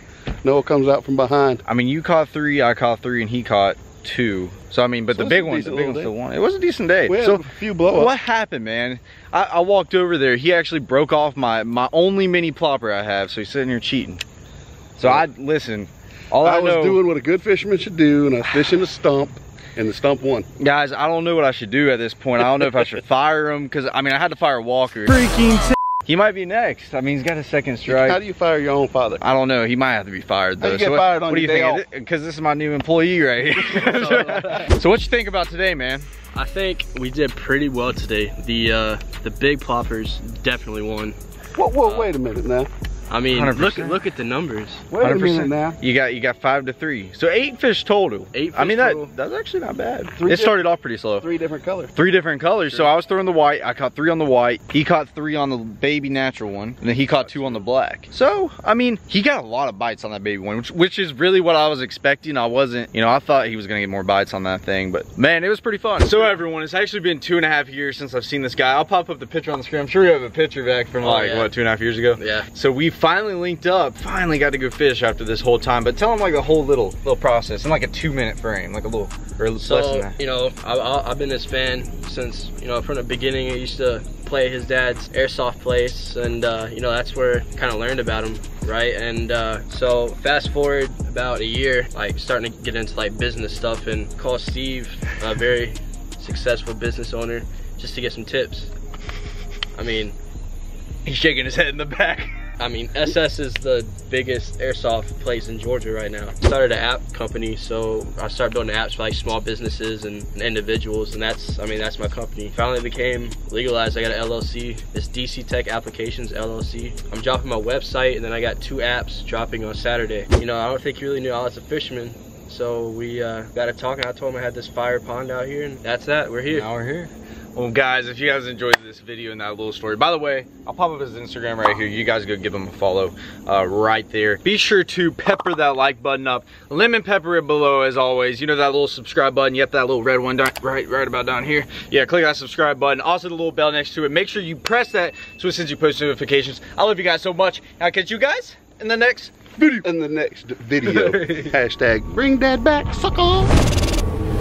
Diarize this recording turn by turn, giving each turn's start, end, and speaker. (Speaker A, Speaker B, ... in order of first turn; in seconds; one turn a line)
Speaker A: 0.4-1.6
Speaker B: 1.6-14.2
Speaker A: 5.1-6.1
Speaker A: 7.1-8.1
Speaker B: 15.0-17.0
Speaker A: 16.4-20.5
Speaker B: 18.5-18.8
Speaker B: 20.6-28.2
Speaker A: 27.9-29.2
Speaker B: 29.2-36.1
Speaker A: 30.6-31.9
Speaker C: 33.8-34.7
Speaker C: 36.4-41.2
Speaker A: 41.5-42.7
Speaker C: 41.8-42.1
Speaker C: 43.1-45.0
Speaker B: 43.3-44.0
Speaker B: 44.9-51.3
Speaker A: 44.9-45.8
Speaker C: 48.3-49.1
Speaker A: 50.1-50.6
Speaker A: 51.2-51.9
Speaker B: 51.9-80.2
Speaker A: 57.3-57.6
Speaker C: 71.0-71.5
Speaker C: 72.2-72.5
Speaker C: 79.6-98.7
Speaker C: 99.8-100.2
Speaker B: 101.0-102.3
Speaker C: 102.4-126.7
Speaker B: 126.5-149.3
Speaker A: 149.6-153.5
Speaker C: 150.8-151.5